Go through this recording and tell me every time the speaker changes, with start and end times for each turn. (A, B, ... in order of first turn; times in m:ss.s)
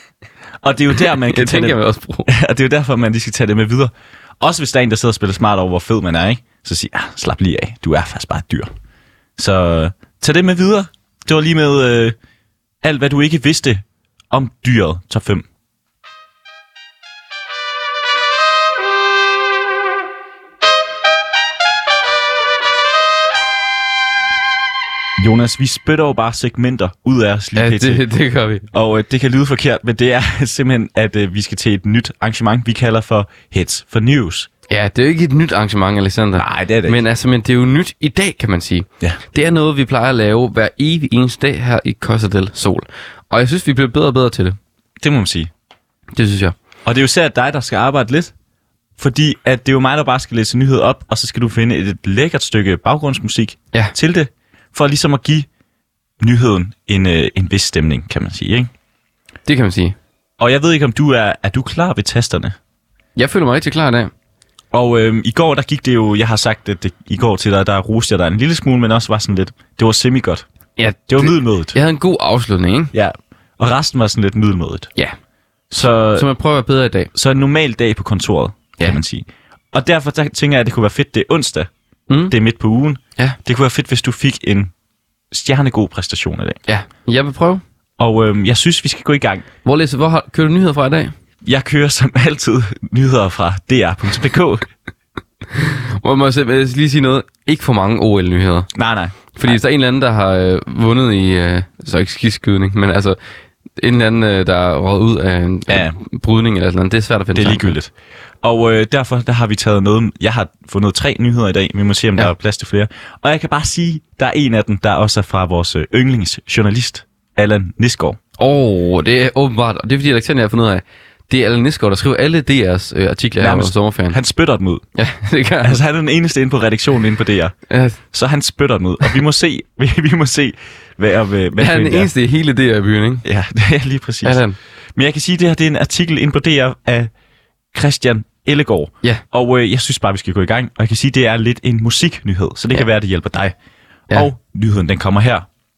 0:00.6-0:08.7 A
0:01.2-0:02.3 B
0:09.4-0:12.2 A
0:12.8-0:15.5 A
0:25.2-0:28.0 A
0:27.6-0:28.6 B
0:28.7-0:34.5 A
0:34.7-0:44.6 B
0:36.4-0:37.0 A
0:45.0-0:45.5 A
0:46.2-0:46.6 B
0:46.8-0:48.3 A
0:49.0-0:55.5 A
0:56.2-0:58.7 A
0:59.5-1:00.0 B
1:00.4-1:02.6 A
1:03.2-1:04.1 B
1:04.7-1:10.5 A
1:10.8-1:12.9 B
1:11.1-1:11.8 A
1:12.9-1:14.9 A
1:15.7-1:16.3 A
1:16.1-1:17.1 B
1:17.1-1:21.7 A
1:22.1-1:22.3 B
1:22.3-1:24.7 A
1:25.3-1:26.6 A
1:26.7-1:27.6 B
1:28.0-1:29.5 A
1:29.6-1:31.1 B
1:31.4-1:34.7 A
1:35.6-1:38.7 B
1:38.7-1:39.6 A
1:39.4-1:43.2 B
1:43.8-1:47.8 B
1:45.7-1:46.0 A
1:47.4-1:58.2 A
1:58.4-2:04.2 B
2:03.4-2:04.8 A
2:05.0-2:05.8 B
2:05.6-2:07.6 A
2:07.7-2:08.0 B
2:08.1-2:12.1 A
2:11.6-2:13.2 B
2:13.2-2:14.4 A
2:14.2-2:14.6 B
2:15.0-2:17.1 A
2:17.7-2:23.6 A
2:24.1-2:25.5 A